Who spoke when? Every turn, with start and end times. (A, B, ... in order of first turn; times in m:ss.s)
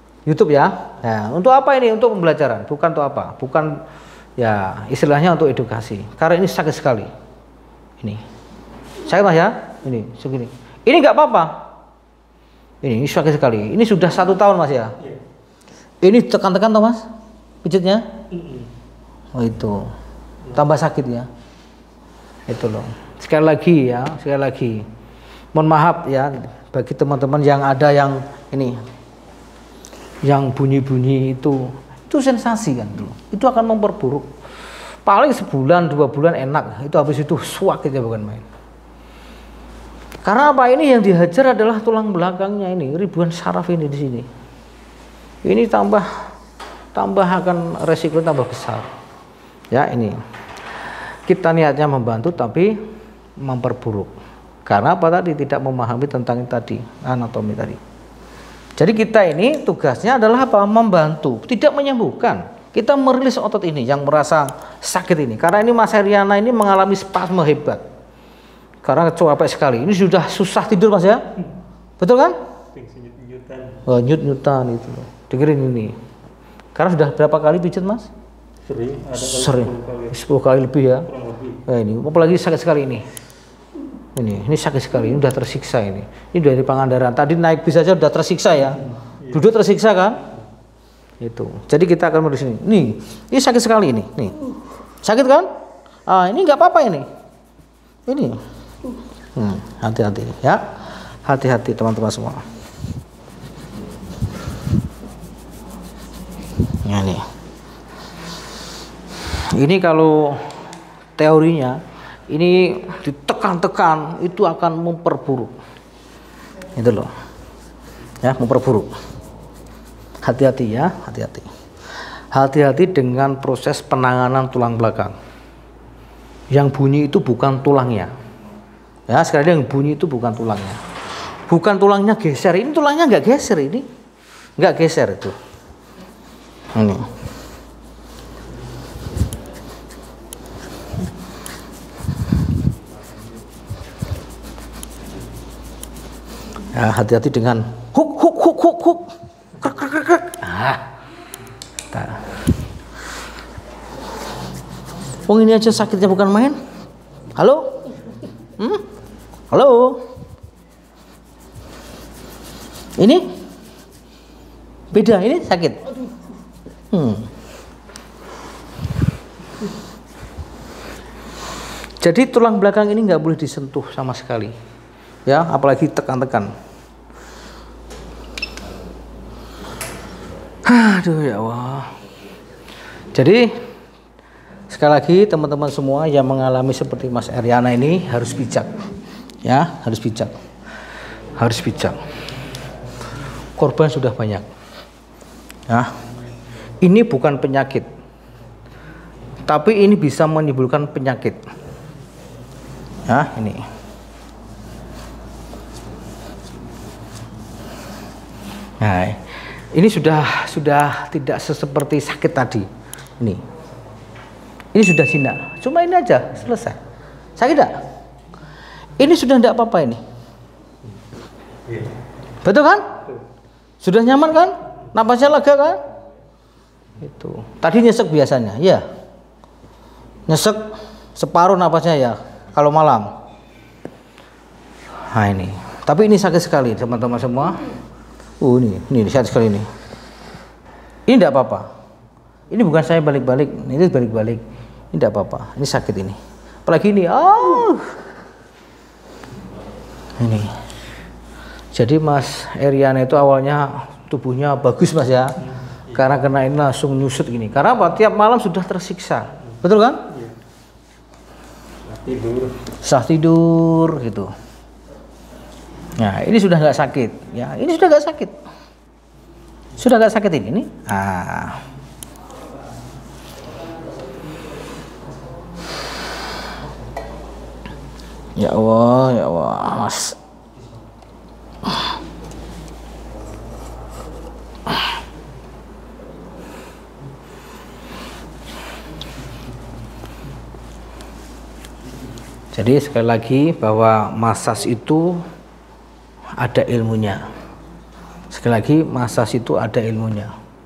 0:00.2-0:03.8 A
0:04.4-0:07.1 A
0:09.0-0:11.6 A
0:12.8-0:15.0 A
0:16.0-0:17.1 A
0:17.6-0:18.1 A
0:18.3-0:18.7 B
0:19.3-0:19.9 A
0:20.5-0:21.3 A
0:22.5-0:24.9 A
0:25.5-0:28.8 A
0:30.2-0:34.3 A
0:35.0-0:38.4 A
0:40.2-0:44.3 A
0:45.4-0:46.1 A
0:46.9-0:48.9 A
0:49.7-0:50.2 A
0:51.3-0:52.8 A
0:53.4-0:54.1 A
0:54.7-0:57.8 A
0:58.8-1:07.8 A
1:08.8-1:11.2 A
1:12.0-1:12.4 A
1:12.7-1:13.8 B
1:13.8-1:16.0 A
1:16.8-1:18.1 A
1:18.6-1:20.2 B
1:19.2-1:21.1 A
1:21.1-1:21.6 B
1:21.6-1:23.1 A
1:24.2-1:30.2 A
1:29.1-1:29.5 B
1:31.2-1:34.5 A
1:35.0-1:35.5 A
1:36.1-1:37.1 A
1:38.1-1:38.4 A
1:39.3-1:40.7 A
1:41.2-1:42.4 A
1:46.7-1:47.2 A
1:49.3-1:50.6 A
1:51.2-1:55.5 A
1:56.8-1:57.1 A
1:58.2-1:58.9 A
2:00.2-2:01.5 A
2:02.3-2:05.1 A
2:06.5-2:08.1 A
2:09.1-2:13.9 A
2:14.6-2:15.4 A
2:16.7-2:17.1 A
2:26.7-2:30.9 A
2:31.9-2:32.4 A
2:35.2-2:36.6 A
2:37.4-2:37.9 A
2:38.6-2:38.9 A
2:39.5-2:40.0 A
2:43.0-2:43.3 A
2:44.9-2:46.0 A
2:46.9-2:47.3 A
2:52.0-2:54.5 A
2:55.2-2:56.5 A
3:00.6-3:01.9 A
3:03.1-3:03.6 A
3:04.7-3:08.8 A
3:09.4-3:10.4 A
3:11.3-3:12.0 A
3:13.6-3:14.5 A
3:15.7-3:16.0 A
3:16.8-3:17.9 A
3:19.4-3:21.4 A
3:23.1-3:23.7 A
3:28.8-3:32.7 A
3:34.7-3:36.8 A
3:37.4-3:37.8 A
3:39.0-3:40.0 A
3:41.7-3:42.0 B
3:42.4-3:42.9 A
3:43.8-3:45.8 A
3:47.0-3:48.8 A
3:50.3-3:53.1 A
3:55.1-3:57.7 A
3:58.4-3:59.7 A
4:01.1-4:01.7 A
4:02.5-4:08.0 A
4:10.2-4:10.6 A
4:11.7-4:15.4 A
4:15.9-4:20.0 A
4:20.1-4:20.4 B
4:21.8-4:22.7 B
4:22.8-4:24.3 A
4:26.0-4:28.4 A
4:29.8-4:31.6 A
4:38.4-4:40.2 A
4:52.5-4:55.2 A
4:56.4-4:57.3 A
4:58.3-5:00.3 A